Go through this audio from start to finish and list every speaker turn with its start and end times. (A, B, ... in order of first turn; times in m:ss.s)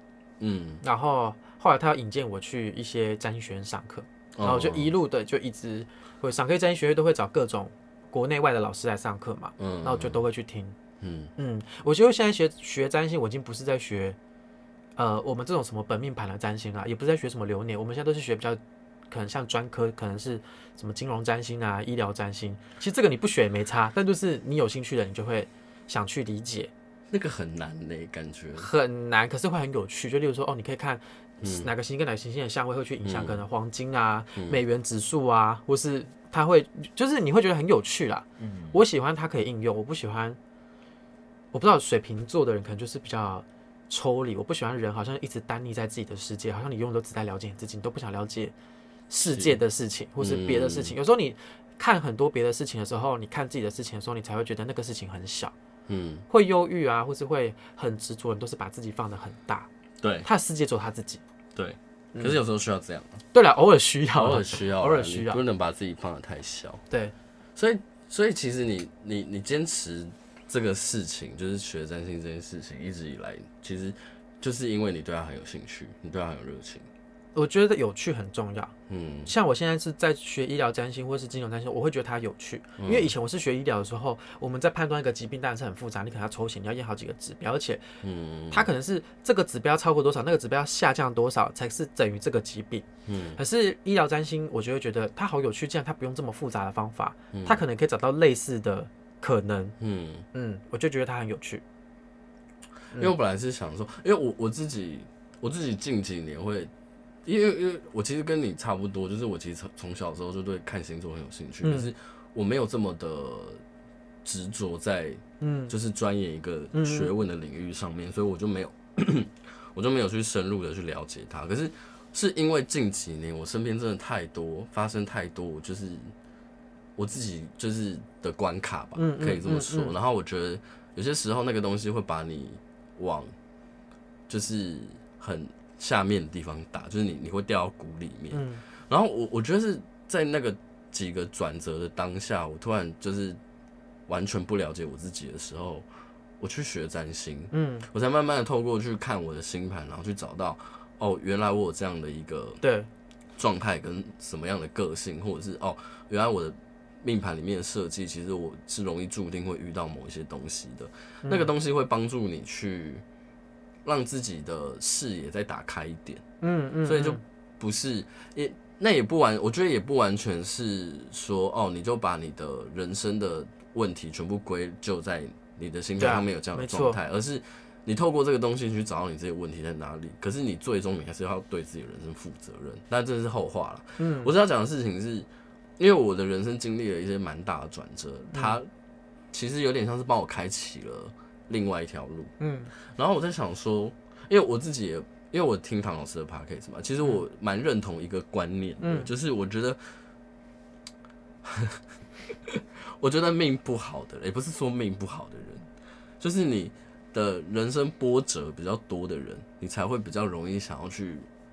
0:00.4-0:00.8 A
0:00.8-0:10.8 B
0:04.3-0:04.9 A
0:09.6-0:10.2 A
0:11.0-0:11.3 A
0:11.4-0:14.2 B
0:15.0-0:18.6 B
0:19.1-0:26.7 B
0:27.1-0:28.7 A
0:28.6-0:40.4 B
0:31.4-0:31.7 A
0:33.0-0:33.4 A
0:38.4-0:38.8 A
0:41.5-0:48.5 B
0:49.1-0:55.5 B
0:49.3-0:49.6 A
0:50.2-0:51.0 A
0:55.9-0:56.2 A
0:56.3-0:59.7 B
1:00.0-1:00.3 A
1:00.2-1:01.2 B
1:01.5-1:03.2 A
1:02.1-1:02.4 B
1:03.3-1:05.4 B
1:04.2-1:06.8 A
1:07.6-1:16.9 A
1:17.3-1:18.7 B
1:18.9-1:19.3 A
1:19.3-1:27.8 B
1:22.8-1:23.1 A
1:28.0-1:28.7 A
1:28.5-1:39.8 B
1:33.0-1:33.4 A
1:37.3-1:37.6 A
1:39.8-1:40.2 A
1:40.3-1:41.6 B
1:42.9-1:46.7 A
1:47.2-1:53.6 A
1:51.6-1:51.9 B
1:54.2-2:06.1 A
1:55.4-1:55.7 B
1:56.7-1:57.1 B
2:07.0-2:13.3 A
2:09.0-2:09.9 B
2:14.3-2:23.4 A
2:18.3-2:18.6 B
2:24.1-2:25.9 A
2:26.4-2:32.6 A
2:27.5-2:27.9 B
2:32.6-2:32.9 B
2:33.4-2:43.0 A
2:41.2-2:41.5 B
2:43.8-2:46.2 A
2:46.4-2:47.2 B
2:46.8-3:08.7 A
2:56.0-2:57.0 B
3:04.0-3:04.3 B
3:09.3-3:19.8 A
3:12.4-3:12.7 B
3:18.8-3:19.1 B
3:21.4-3:25.7 A
3:26.2-3:31.3 A